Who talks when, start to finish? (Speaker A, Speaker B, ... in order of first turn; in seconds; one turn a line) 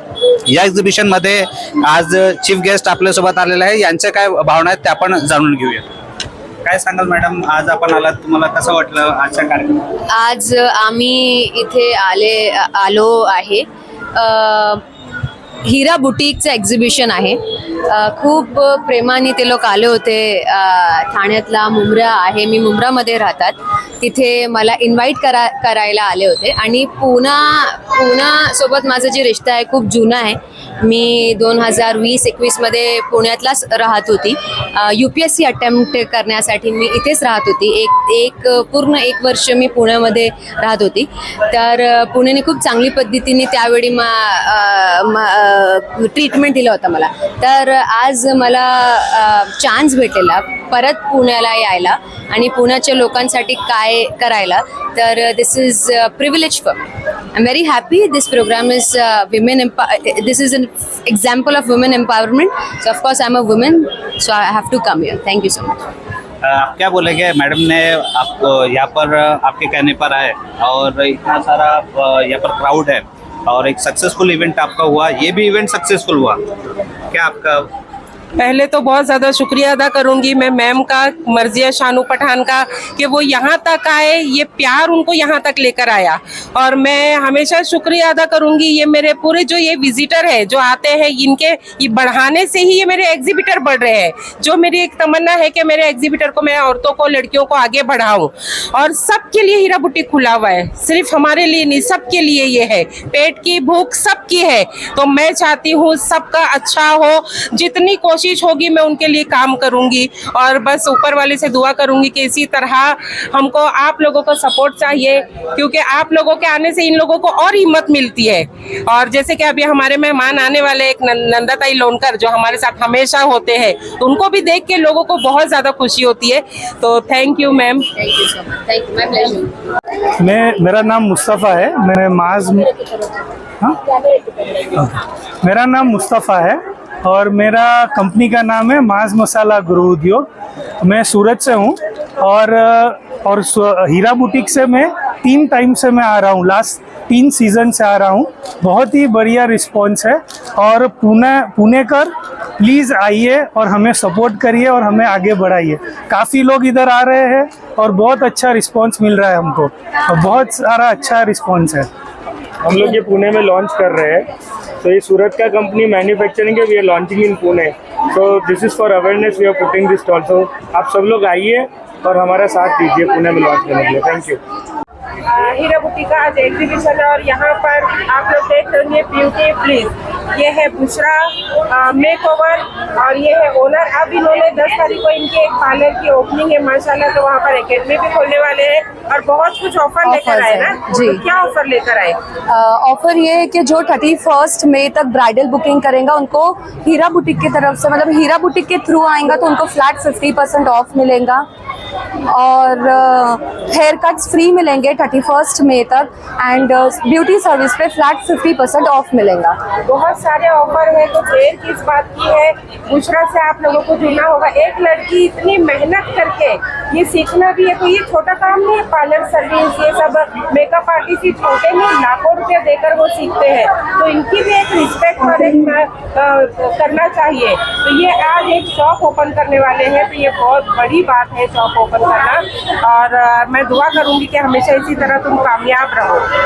Speaker A: 0.5-5.8
Speaker A: 6.6-9.9
Speaker B: 10.1-14.8
Speaker B: 15.6-56.8
Speaker B: 57.3-65.9
Speaker A: 66.4-76.4
Speaker A: 77.1-77.7
Speaker C: 78.3-127.9
Speaker B: 128.0-129.5
Speaker D: 130.2-132.7
Speaker D: 134.7-140.3
Speaker D: 140.8-161.9
Speaker E: 162.6-164.3
Speaker E: 164.8-174.4
Speaker C: 175.2-192.2
Speaker F: 190.0-191.2
Speaker F: 192.5-201.4
Speaker F: 202.3-209.6
Speaker C: 209.8-236.2